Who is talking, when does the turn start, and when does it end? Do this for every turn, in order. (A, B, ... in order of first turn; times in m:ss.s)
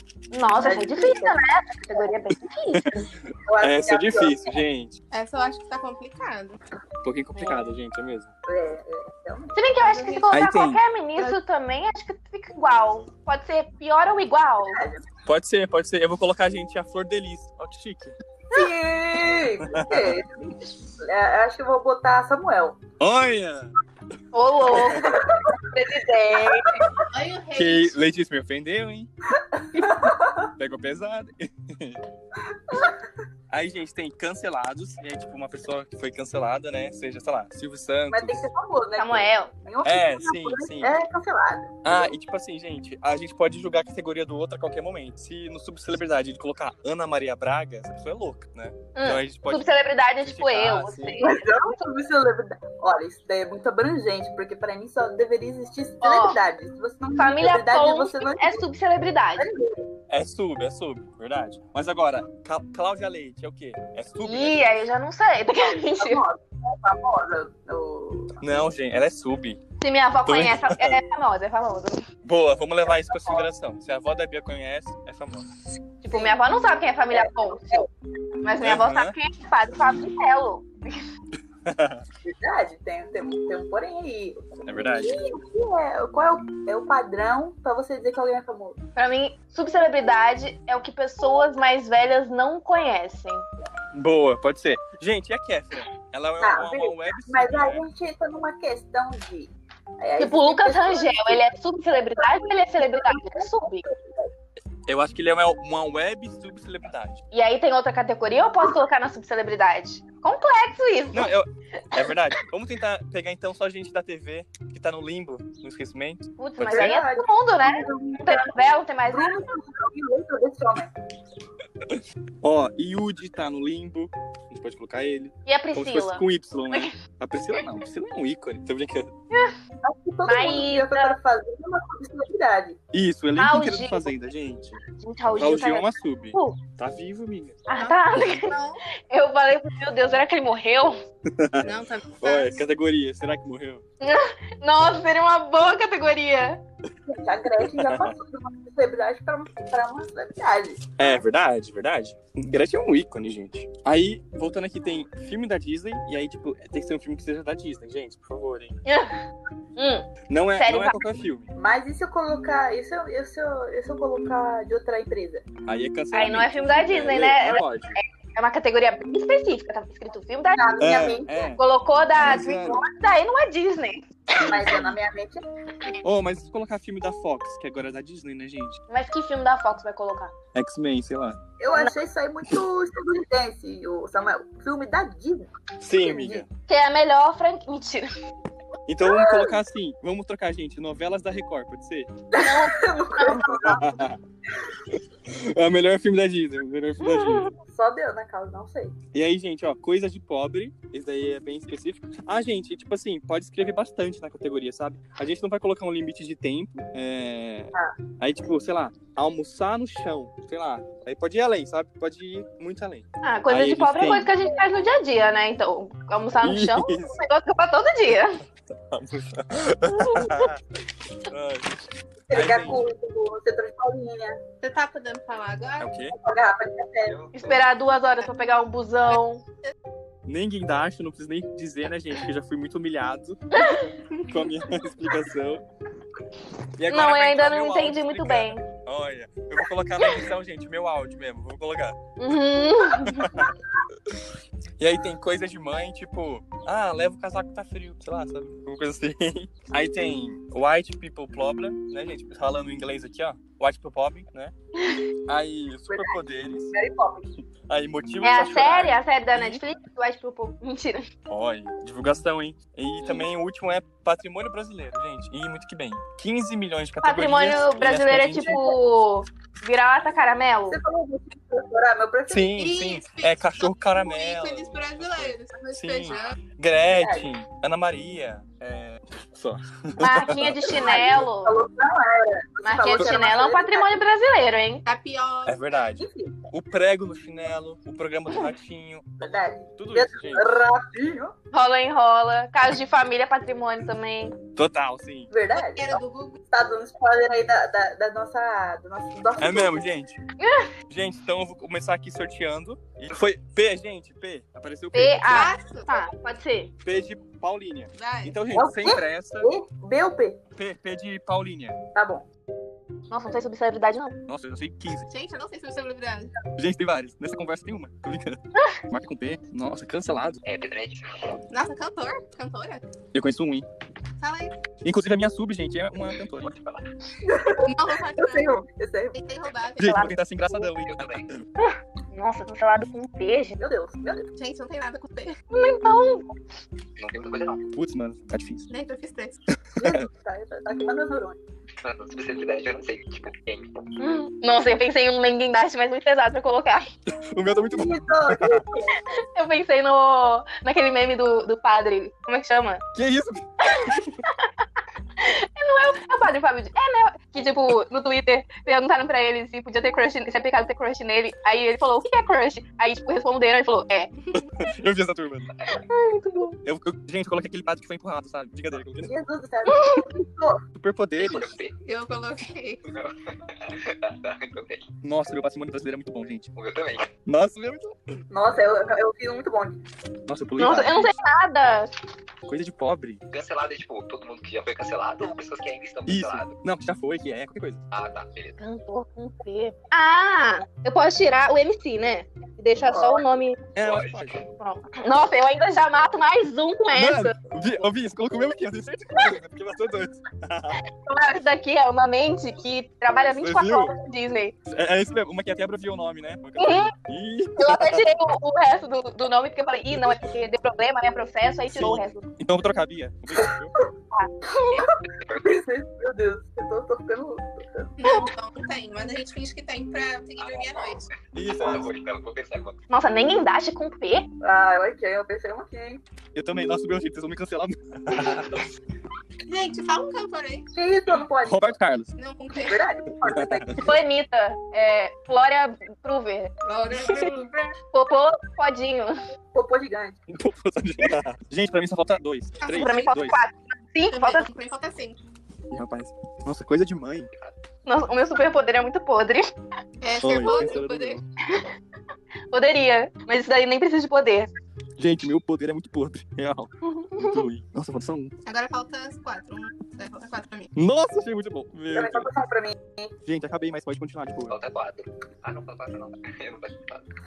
0:00.3-0:03.0 A
0:00.5-0:01.4 B
0:02.7-0:04.9 C
0:03.4-0:04.6 B
0:05.1-0:06.6 D
0:07.0-0:08.3 C
0:07.4-0:07.6 A
0:08.4-0:10.3 B
0:09.5-0:14.8 A
0:10.3-0:10.8 C
0:14.6-0:15.0 B
0:15.2-0:18.1 C
0:18.5-0:22.8 B
0:19.6-0:20.2 C
0:23.0-0:23.7 C
0:24.3-0:26.8 A
0:24.7-0:26.8 B
0:27.1-0:27.9 D
0:27.5-0:29.1 C
0:29.4-0:30.5 B
0:30.6-0:32.0 C
0:32.5-0:33.0 B
0:33.5-0:38.5 C
0:38.1-0:42.1 B
0:39.0-0:39.5 A
0:39.8-0:41.0 C
0:41.8-0:51.2 C
0:49.0-0:51.8 A
0:51.2-0:58.6 B
0:56.0-0:56.4 A
0:57.2-0:59.5 A
0:59.4-0:59.9 B
1:00.1-1:04.6 C
1:04.2-1:06.2 A
1:05.6-1:08.4 B
1:08.4-1:09.6 C
1:09.8-1:12.0 A
1:10.2-1:11.0 C
1:12.2-1:15.5 C
1:12.8-1:13.5 B
1:16.0-1:17.8 A
1:16.1-1:16.4 B
1:17.1-1:17.9 B
1:18.4-1:21.0 A
1:18.6-1:19.1 C
1:21.6-1:22.0 C
1:22.2-1:28.8 B
1:24.6-1:25.2 C
1:29.0-1:33.4 A
1:33.9-1:37.8 C
1:36.4-1:44.3 B
1:40.2-1:43.8 A
1:44.9-1:47.2 C
1:47.3-1:51.3 A
1:51.1-1:57.0 C
1:56.4-1:59.4 A
1:56.6-1:58.5 B
1:59.0-2:00.9 B
2:01.9-2:09.1 C
2:05.4-2:06.9 A
2:09.3-2:09.6 A
2:09.8-2:12.8 B
2:10.2-2:11.2 A
2:12.9-2:14.8 C
2:13.4-2:14.1 A
2:15.0-2:16.6 A
2:15.4-2:17.6 C
2:17.7-2:18.5 A
2:17.7-2:18.8 D
2:19.1-2:21.0 A
2:21.3-2:23.8 C
2:21.6-2:22.6 D
2:24.0-2:26.6 A
2:27.0-2:31.2 B
2:27.6-2:28.1 C
2:31.0-2:38.8 C
2:38.8-2:39.2 A
2:39.8-2:41.0 A
2:40.3-2:41.5 C
2:41.5-2:45.4 B
2:45.6-2:48.0 C
2:46.1-2:54.0 A
2:50.5-2:51.3 B
2:50.8-2:51.6 C
2:52.2-2:52.8 C
2:54.3-2:55.0 C
2:54.4-2:55.4 B
2:56.0-2:58.8 C
2:58.9-3:00.3 A
3:00.5-3:01.4 C
3:01.6-3:06.4 B
3:05.8-3:06.5 C
3:06.7-3:08.1 A
3:08.9-3:12.1 C
3:09.0-3:09.6 B
3:12.3-3:14.0 B
3:12.4-3:13.4 A
3:13.4-3:14.2 C
3:15.2-3:17.5 C
3:17.0-3:17.5 A
3:17.6-3:19.0 B
3:19.1-3:34.3 C
3:33.2-3:38.4 A
3:36.4-3:37.2 C
3:38.9-3:40.6 C
3:39.9-3:40.5 A
3:41.2-3:41.7 C
3:42.3-3:44.4 B
3:42.3-3:42.8 C
3:44.6-3:45.9 D
3:45.8-3:46.1 C
3:46.1-3:47.2 B
3:47.1-3:47.6 E
3:47.3-3:49.4 A
3:49.1-3:49.7 D
3:50.3-3:53.4 C
3:53.5-3:53.9 A
3:54.1-3:54.5 D
3:54.3-3:55.6 C
3:56.8-4:02.0 C
3:56.9-3:58.6 A
4:00.0-4:00.3 A
4:02.2-4:03.6 A
4:03.0-4:03.5 C
4:04.8-4:14.5 C
4:15.3-4:16.7 C
4:15.9-4:16.2 B
4:16.7-4:17.3 B
4:17.7-4:19.6 C
4:18.2-4:21.1 A
4:21.3-4:28.6 C
4:27.0-4:30.8 A
4:28.3-4:28.8 B
4:30.7-4:32.8 B
4:32.3-4:40.9 C
4:32.6-4:36.4 D
4:36.9-4:37.3 B
4:40.0-4:41.6 A
4:40.6-4:44.0 B
4:42.6-4:44.8 A
4:44.8-4:45.6 D
4:45.4-4:50.5 C
4:46.0-4:46.4 B
4:49.2-4:51.3 B
4:51.5-4:54.4 A
4:54.6-4:55.3 C
4:55.3-4:59.8 B
4:55.5-4:56.4 D
4:59.4-5:00.2 C
5:00.4-5:00.7 A
5:00.9-5:05.5 C
5:04.9-5:06.7 A
5:05.3-5:06.0 D
5:06.8-5:09.5 C
5:07.9-5:08.4 D
5:08.5-5:10.4 B
5:10.6-5:11.8 C
5:11.9-5:12.2 B
5:13.1-5:14.2 A
5:14.3-5:15.0 C
5:15.1-5:16.3 D
5:16.5-5:20.4 C
5:20.4-5:21.4 E
5:21.5-5:22.8 D
5:23.1-5:23.6 C
5:24.2-5:24.6 D
5:24.8-5:26.5 C
5:26.4-5:26.9 E
5:27.2-5:29.2 B
5:27.6-5:30.1 D
5:29.8-5:31.4 C
5:29.8-5:30.1 A
5:30.8-5:31.3 E
5:31.6-5:33.6 A
5:33.6-5:34.3 B
5:34.4-5:35.3 D
5:35.5-5:36.3 A
5:37.0-5:37.6 E
5:37.7-5:38.7 C
5:38.7-5:39.4 D
5:39.7-5:40.0 C
5:39.8-5:41.4 B
5:41.8-5:43.7 E
5:44.0-5:46.9 A
5:47.1-5:48.6 C
5:47.7-5:49.0 B
5:49.3-5:52.8 A
5:52.9-5:54.1 C
5:53.7-5:54.6 A
5:55.2-6:04.1 A
6:04.4-6:05.5 C
6:05.5-6:05.8 E
6:05.7-6:06.6 A
6:06.6-6:09.1 C
6:09.0-6:10.6 B
6:09.7-6:10.0 A
6:10.8-6:11.5 C
6:11.2-6:11.7 E
6:11.8-6:12.8 D
6:12.8-6:14.9 E
6:15.0-6:16.5 C
6:16.5-6:17.1 E
6:17.2-6:18.0 C
6:18.3-6:19.8 B
6:20.3-6:21.1 C
6:20.6-6:21.9 A
6:22.5-6:23.2 C
6:23.3-6:26.5 E
6:26.1-6:27.8 C
6:27.9-6:28.6 E
6:28.6-6:33.6 A
6:32.9-6:33.2 B
6:33.7-6:34.4 C
6:33.8-6:34.4 E
6:34.6-6:37.4 A
6:36.9-6:40.8 C
6:41.0-6:44.5 A
6:43.4-6:43.9 C
6:44.7-6:48.0 C
6:46.6-6:46.9 A
6:47.6-6:52.3 A
6:51.7-6:53.7 C
6:54.1-6:54.9 A
6:54.7-6:57.9 B
6:55.2-6:55.6 E
6:58.0-7:01.1 D
7:00.4-7:02.8 E
7:01.3-7:01.9 C
7:02.9-7:04.3 A
7:04.4-7:06.0 B
7:06.3-7:08.5 C
7:08.2-7:08.5 E
7:09.4-7:10.7 D
7:10.7-7:11.8 B
7:11.4-7:12.1 C
7:12.2-7:12.8 D
7:12.6-7:14.0 B
7:13.2-7:13.8 C
7:13.8-7:16.5 A
7:16.6-7:17.8 D
7:17.9-7:19.2 A
7:19.5-7:20.2 B
7:20.3-7:23.4 C
7:22.6-7:23.1 D
7:22.7-7:24.4 A
7:24.1-7:25.2 D
7:25.7-7:27.3 C
7:27.8-7:29.5 A
7:30.0-7:31.2 D
7:30.2-7:31.2 C
7:32.5-7:34.5 A
7:35.0-7:38.3 C
7:36.8-7:37.4 A
7:38.4-7:40.7 D
7:40.7-7:42.3 C
7:41.9-7:43.1 B
7:43.2-7:44.6 C
7:44.5-7:47.1 E